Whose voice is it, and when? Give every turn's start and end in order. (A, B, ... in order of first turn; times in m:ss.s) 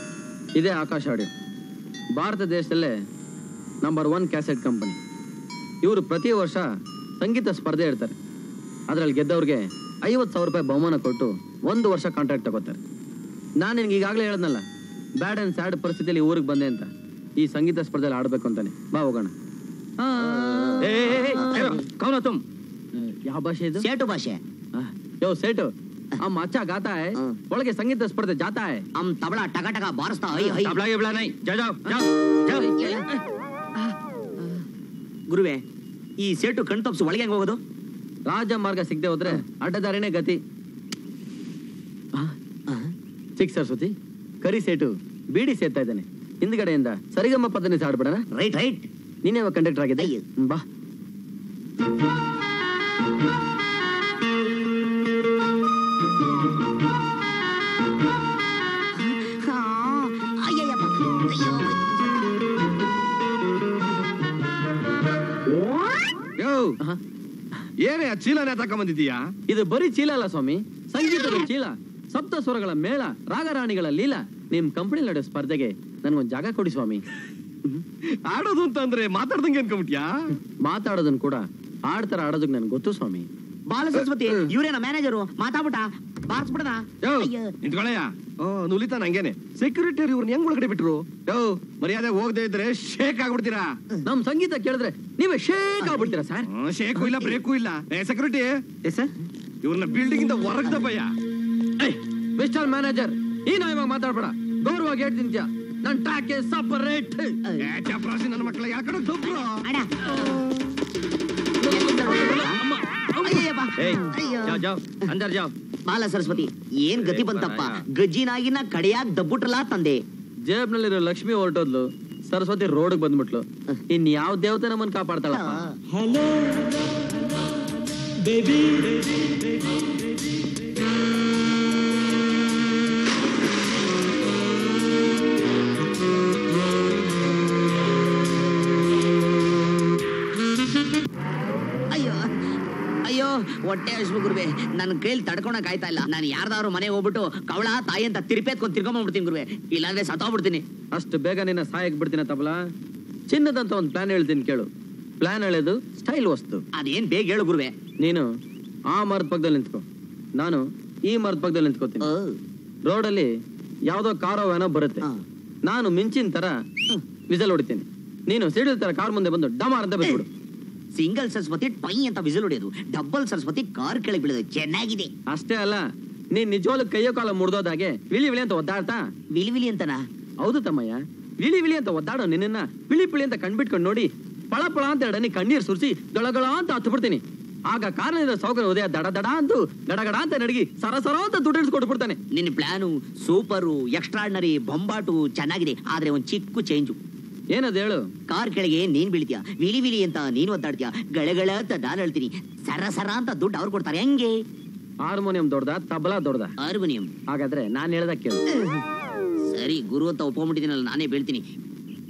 0:00.6-0:01.3 A
0:02.2-0:02.9 A
0:03.8-0:05.0 A
0:05.8-0:06.7 A
0:07.2-0:08.2 A
0:08.9-0:12.8 A
0:13.6-0:14.6 A
0:15.2-0:19.3 A
0:20.0-0:21.7 A
0:20.3-0:21.8 B
0:20.8-0:22.4 C
0:23.0-0:23.9 A
0:23.8-0:24.4 B
0:24.8-0:28.8 A
0:29.0-0:30.8 B
0:30.4-0:32.8 C
0:31.4-0:33.0 A
0:32.8-0:33.1 B
0:35.3-0:35.6 B
0:36.2-0:37.6 B
0:38.3-0:40.4 A
0:43.4-0:48.2 A
0:48.4-0:48.9 B
0:49.2-0:50.6 A
0:50.0-0:50.2 B
0:59.0-1:02.3 B
1:06.4-1:06.8 C
1:07.8-1:09.3 C
1:09.5-1:17.0 A
1:18.3-1:20.2 C
1:20.5-1:23.3 A
1:23.7-1:27.5 B
1:27.1-1:33.8 C
1:34.0-1:36.5 A
1:35.8-1:36.1 B
1:36.5-1:38.6 C
1:37.0-1:37.4 B
1:39.6-1:41.1 C
1:41.8-1:47.4 A
1:47.6-1:49.5 C
1:49.2-1:50.4 B
1:51.6-1:55.5 A
1:51.7-1:52.6 B
1:53.2-1:55.1 B
1:55.9-2:00.0 B
1:57.1-1:57.8 A
2:00.5-2:05.7 A
2:05.3-2:05.8 B
2:21.9-2:22.3 B
2:23.1-2:30.6 B
2:30.9-2:32.6 A
2:33.3-2:34.7 A
2:35.2-2:36.6 A
2:36.8-2:37.7 B
2:38.0-2:38.3 A
2:38.9-2:39.8 A
2:40.4-2:42.1 A
2:42.0-2:42.4 B
2:42.9-2:43.3 A
2:43.9-2:45.0 A
2:45.7-2:46.6 A
2:47.3-2:50.3 A
2:51.0-2:55.1 B
2:55.3-2:59.0 A
2:59.3-3:00.0 B
3:00.4-3:12.2 A
3:12.3-3:17.0 B
3:17.5-3:18.0 A
3:18.3-3:24.3 B
3:25.1-3:26.5 A
3:26.6-3:27.1 B
3:27.3-3:28.4 A
3:28.5-3:28.8 B
3:29.5-3:31.4 B